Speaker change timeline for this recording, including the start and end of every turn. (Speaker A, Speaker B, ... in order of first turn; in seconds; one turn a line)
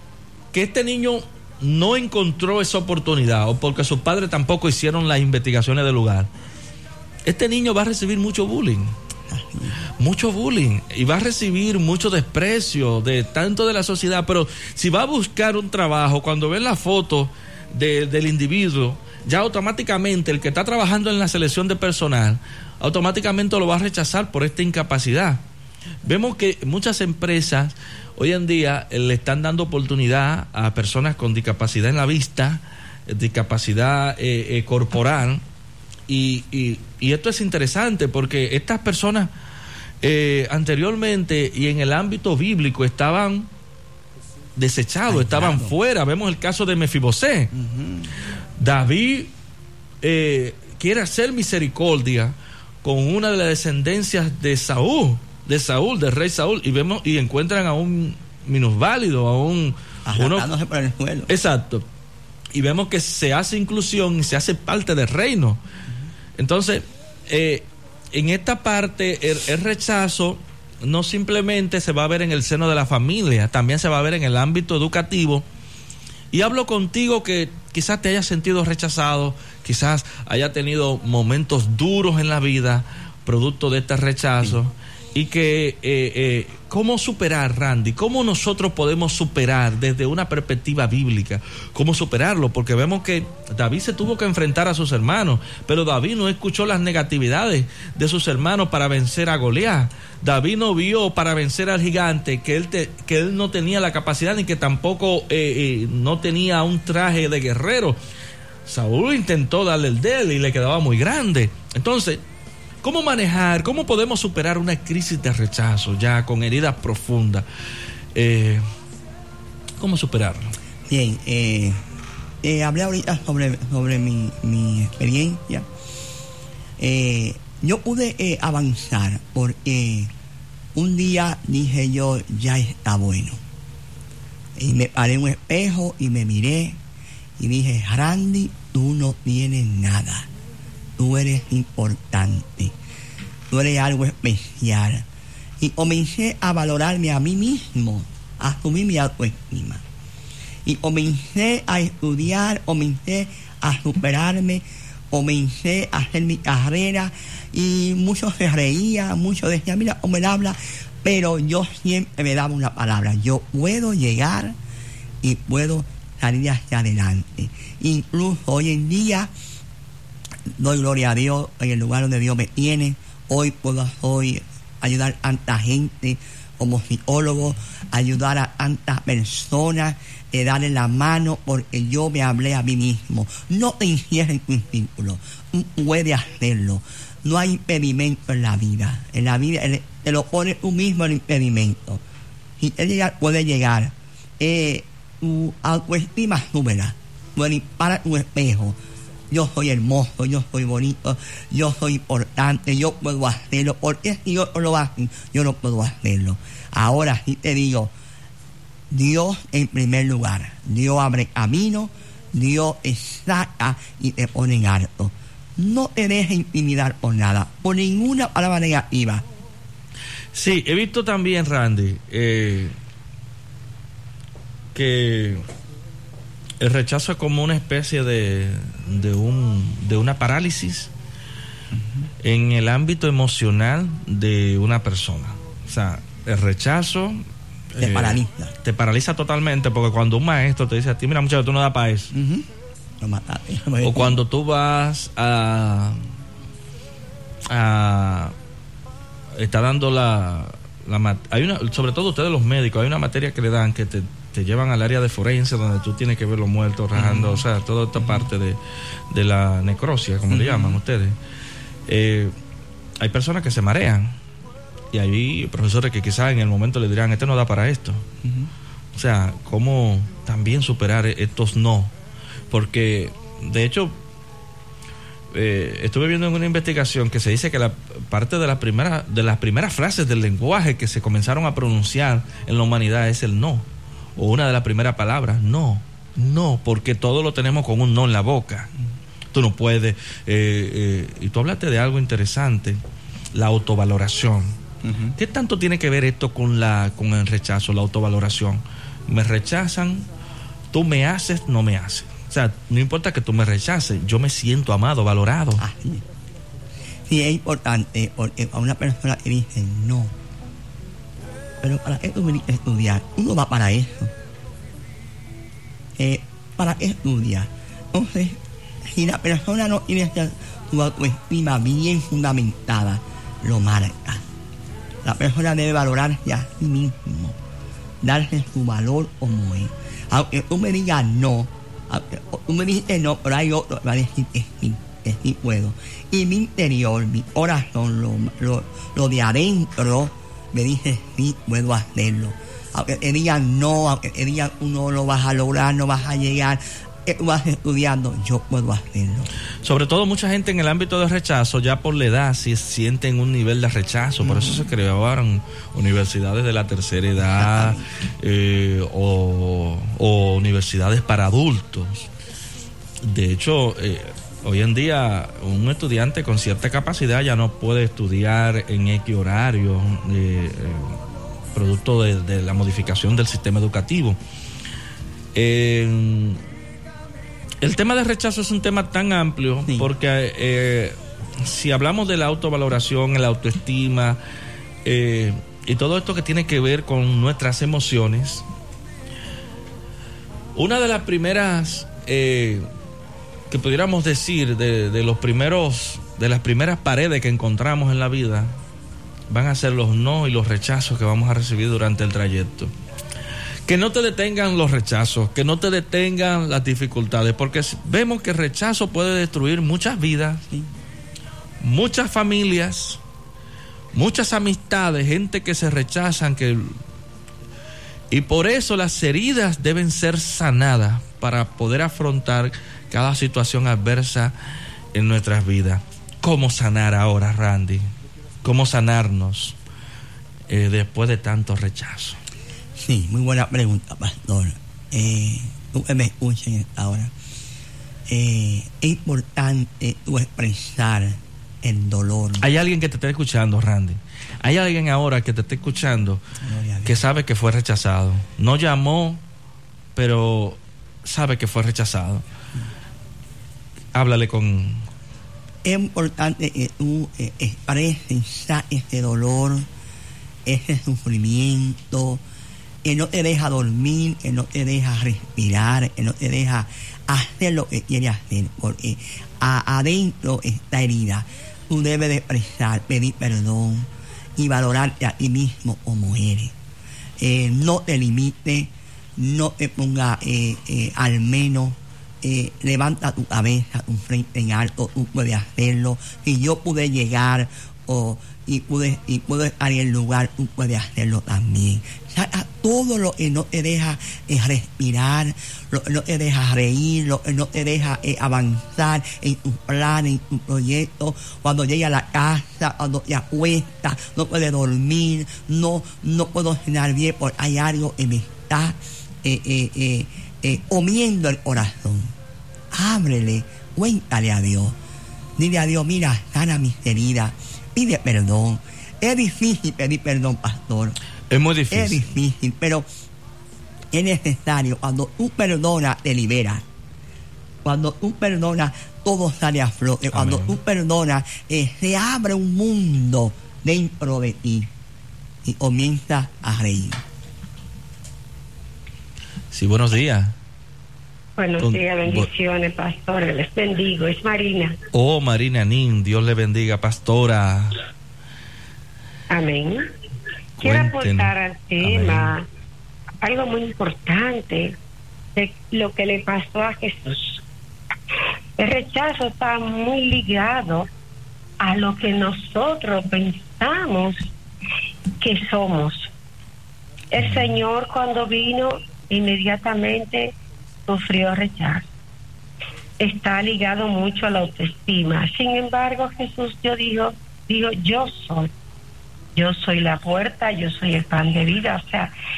Speaker A: 0.5-6.3
Speaker A: 7.2-8.9
Speaker B: 9.3-9.8
Speaker A: 10.0-25.4
Speaker A: 26.0-35.4
Speaker A: 36.1-39.3
Speaker A: 40.0-43.5
Speaker A: 44.5-47.5
Speaker B: 45.1-45.7
Speaker B: 47.5-48.0
Speaker A: 48.6-49.3
Speaker A: 50.0-60.5
Speaker B: 60.1-61.3
Speaker A: 61.3-61.9
Speaker A: 62.5-65.6
Speaker A: 66.4-75.4
Speaker A: 76.3-108.0
Speaker A: 108.7-112.2
Speaker A: 112.8-117.4
Speaker A: 118.1-118.6
Speaker A: 119.8-120.5
Speaker B: 120.9-121.8
Speaker B: 122.4-125.7
Speaker B: 126.8-130.1
Speaker B: 130.7-133.4
Speaker B: 134.6-136.8
Speaker B: 137.4-140.3
Speaker B: 141.0-142.7
Speaker B: 143.5-145.0
Speaker B: 145.6-149.8
Speaker B: 150.6-164.6
Speaker B: 165.2-169.3
Speaker B: 170.5-192.0
Speaker B: 192.6-198.8
Speaker B: 199.3-207.9
Speaker B: 208.9-219.2
Speaker A: 220.3-222.7
Speaker A: 224.7-225.4
Speaker A: 226.6-230.9
Speaker A: 232.2-242.1
Speaker B: 237.8-238.5
Speaker B: 242.1-242.4
Speaker B: 243.0-244.2
Speaker A: 243.8-246.1
Speaker A: 247.5-248.3
Speaker A: 249.3-258.6
Speaker B: 256.9-257.4
Speaker B: 258.0-258.3
Speaker A: 259.1-261.2
Speaker B: 260.3-260.8
Speaker A: 261.9-262.3
Speaker A: 263.0-264.2
Speaker A: 264.9-268.1
Speaker B: 268.2-268.5
Speaker A: 268.9-271.9
Speaker A: 272.5-274.0
Speaker A: 275.3-288.7
Speaker A: 289.3-292.8
Speaker A: 293.3-294.6
Speaker B: 294.8-295.1
Speaker A: 295.1-300.1
Speaker A: 300.7-305.6
Speaker B: 305.6-306.0
Speaker B: 307.1-310.1
Speaker B: 311.6-314.1
Speaker B: 316.0-324.2
Speaker B: 325.0-327.4
Speaker B: 328.0-349.3
Speaker A: 349.6-362.1
Speaker B: 354.2-354.6
Speaker B: 357.2-357.8
Speaker A: 363.0-371.0
Speaker A: 371.5-374.2
Speaker A: 375.3-376.4
Speaker A: 377.6-384.2
Speaker B: 379.6-379.9
Speaker A: 384.8-388.4
Speaker A: 390.5-392.6
Speaker A: 393.5-398.6
Speaker A: 399.3-402.7
Speaker A: 403.6-410.4
Speaker A: 411.6-413.0
Speaker A: 413.9-416.8
Speaker A: 418.1-424.3
Speaker A: 424.9-427.8
Speaker A: 428.4-429.6
Speaker A: 430.5-432.2
Speaker B: 432.8-437.1
Speaker B: 438.1-442.4
Speaker A: 442.4-446.2
Speaker B: 446.4-447.0
Speaker A: 446.8-449.2
Speaker A: 449.9-452.2
Speaker A: 453.9-454.9
Speaker B: 455.6-459.7
Speaker B: 460.4-462.2
Speaker B: 462.8-476.5
Speaker B: 477.2-512.1
Speaker B: 512.7-514.8
Speaker B: 515.4-521.0
Speaker A: 521.3-522.1
Speaker B: 521.7-522.9
Speaker B: 523.9-526.6
Speaker B: 527.6-534.7
Speaker A: 530.1-530.5
Speaker B: 535.4-537.0
Speaker A: 539.5-540.4
Speaker C: 541.4-544.8
Speaker A: 541.6-542.3
Speaker A: 544.9-547.8
Speaker C: 549.3-549.8
Speaker A: 550.6-552.4
Speaker C: 550.6-552.5
Speaker C: 553.2-554.8
Speaker C: 555.4-557.4
Speaker C: 558.6-560.9
Speaker C: 561.6-564.2
Speaker C: 565.2-566.1
Speaker C: 567.1-570.3
Speaker A: 567.2-567.6
Speaker C: 570.9-571.9
Speaker C: 573.0-578.5
Speaker C: 579.3-582.1